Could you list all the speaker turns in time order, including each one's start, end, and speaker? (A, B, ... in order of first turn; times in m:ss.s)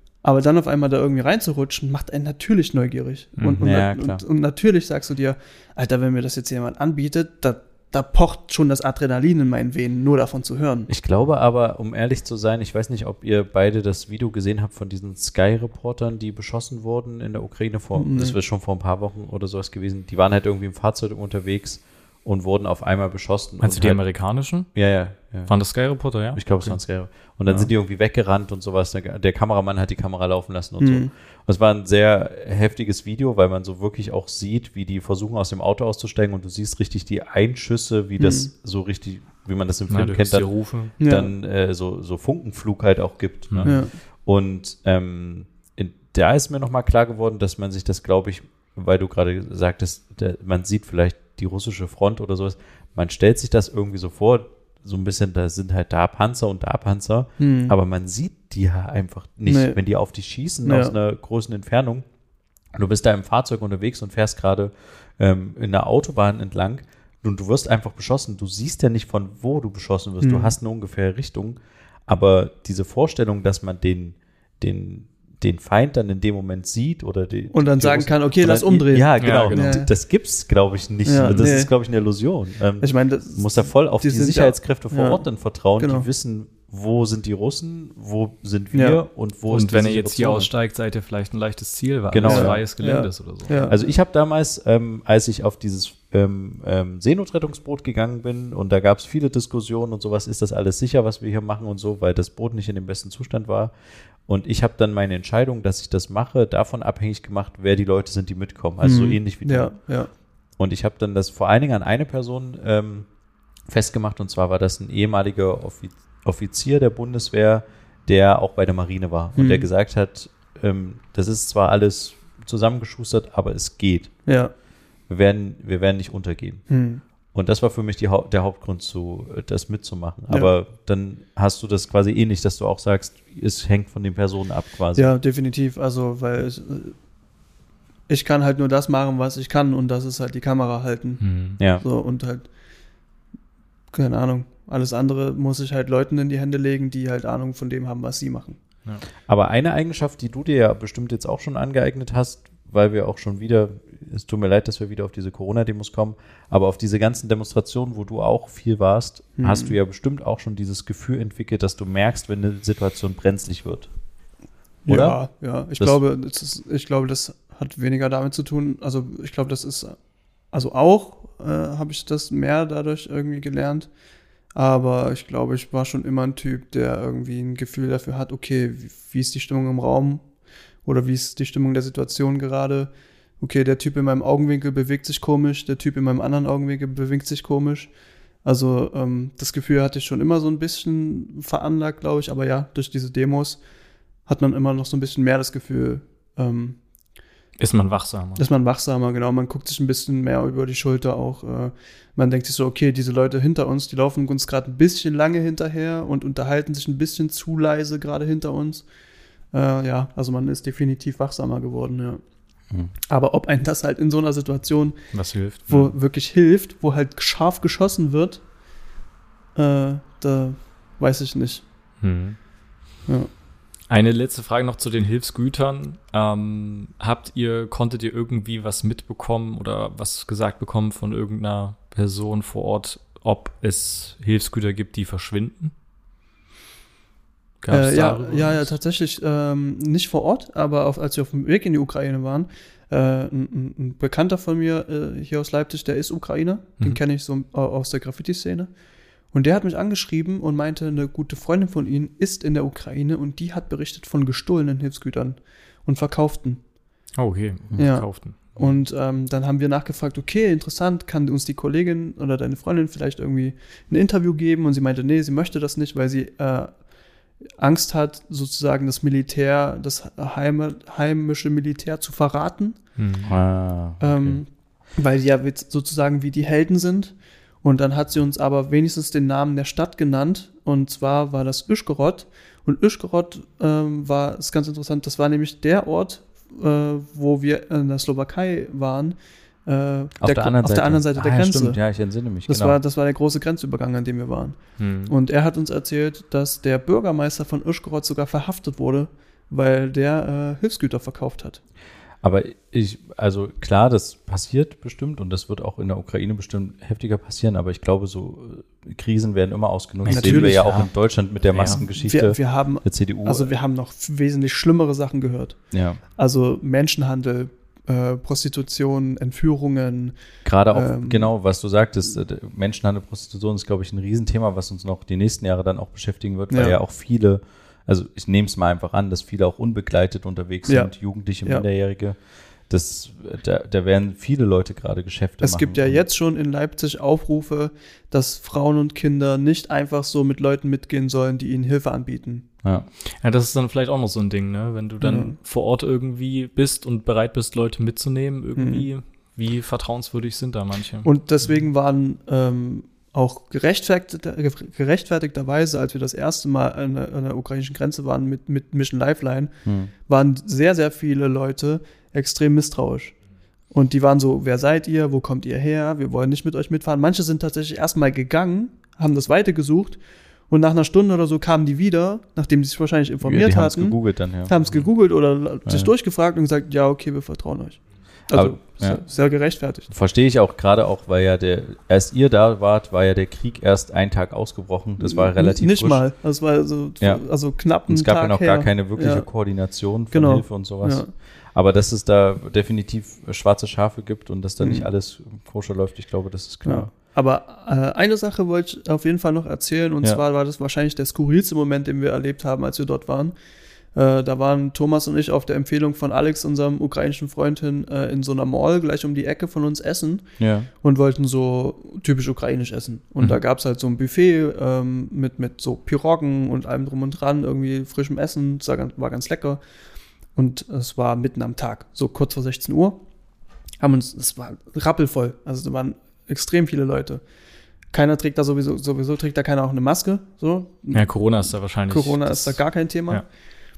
0:00.2-0:10.9 A
0:03.4-0:03.7 B
0:03.6-0:04.2 C
0:10.9-0:24.0 C
0:18.0-0:18.4 A
0:23.6-0:24.8 B
0:24.7-1:02.1 C
0:25.5-0:27.7 B
0:30.8-0:31.1 A
0:38.2-0:38.5 A
0:39.9-0:40.9 B
0:41.0-0:41.3 A
0:43.5-0:43.8 B
0:43.6-0:44.0 A
0:57.4-0:57.8 A
0:59.5-0:59.8 A
1:00.6-1:00.9 A
1:02.7-1:30.5 C
1:10.2-1:10.6 A
1:17.5-1:19.9 A
1:19.2-1:19.8 B
1:21.0-1:21.7 A
1:22.8-1:25.2 A
1:25.8-1:26.1 A
1:28.7-1:29.0 A
1:29.5-1:33.7 B
1:32.1-1:32.6 C
1:32.2-1:33.9 A
1:33.7-1:49.8 C
1:48.8-1:50.1 A
1:50.6-1:53.1 C
1:53.7-2:04.3 C
1:59.4-1:59.7 A
2:04.3-2:04.5 A
2:05.1-2:06.6 C
2:06.7-2:07.0 A
2:07.3-2:15.1 C
2:15.0-2:17.0 A
2:18.1-2:22.5 A
2:21.2-2:21.6 B
2:21.6-2:21.8 C
2:23.9-2:28.6 A
2:29.3-2:43.9 C
2:39.4-2:39.8 A
2:44.8-2:50.0 A
2:44.9-2:45.2 C
2:50.5-2:53.9 A
2:54.5-3:00.3 A
3:00.8-3:07.9 A
3:08.4-3:13.6 A
3:14.3-3:16.8 A
3:17.6-3:18.4 B
3:18.4-3:28.8 A
3:29.5-3:32.2 A
3:33.1-3:35.0 A
3:35.1-3:36.0 B
3:35.7-3:38.4 A
3:39.6-3:41.6 A
3:42.0-3:42.4 B
3:43.9-3:55.7 B
3:57.6-3:58.7 B
3:57.7-4:08.7 A
4:09.3-4:16.6 A
4:17.2-4:18.4 B
4:17.8-4:26.8 A
4:27.6-4:32.8 A
4:33.0-4:33.3 B
4:33.3-4:34.4 C
4:34.0-4:51.8 A
4:50.2-4:52.8 C
4:52.5-5:01.6 A
4:54.8-4:55.2 B
5:02.2-5:13.5 C
5:10.0-5:10.9 B
5:10.1-5:10.9 A
5:11.5-5:11.8 B
5:11.6-5:15.6 A
5:15.7-5:16.0 C
5:16.1-5:20.2 A
5:20.4-5:36.1 C
5:20.7-5:21.3 A
5:26.5-5:26.8 A
5:30.7-5:31.7 A
5:35.4-5:42.5 A
5:42.6-5:42.9 C
5:43.1-5:51.5 B
5:45.0-5:45.4 A
5:48.6-5:48.9 A
5:51.0-6:03.2 A
5:59.6-5:59.9 C
6:03.7-6:19.9 A
6:13.2-6:14.6 C
6:15.6-6:15.9 C
6:18.3-6:19.0 C
6:19.9-6:26.0 C
6:25.0-6:29.3 A
6:27.0-6:27.3 C
6:27.8-6:36.9 C
6:30.1-6:31.1 A
6:34.6-6:34.9 A
6:36.6-6:43.3 A
6:43.9-6:50.2 A
6:50.4-6:50.7 C
6:50.8-6:59.6 A
7:00.4-7:03.0 A
7:03.8-7:07.2 A
7:07.9-7:11.1 A
7:10.9-7:13.2 B
7:11.9-7:13.2 A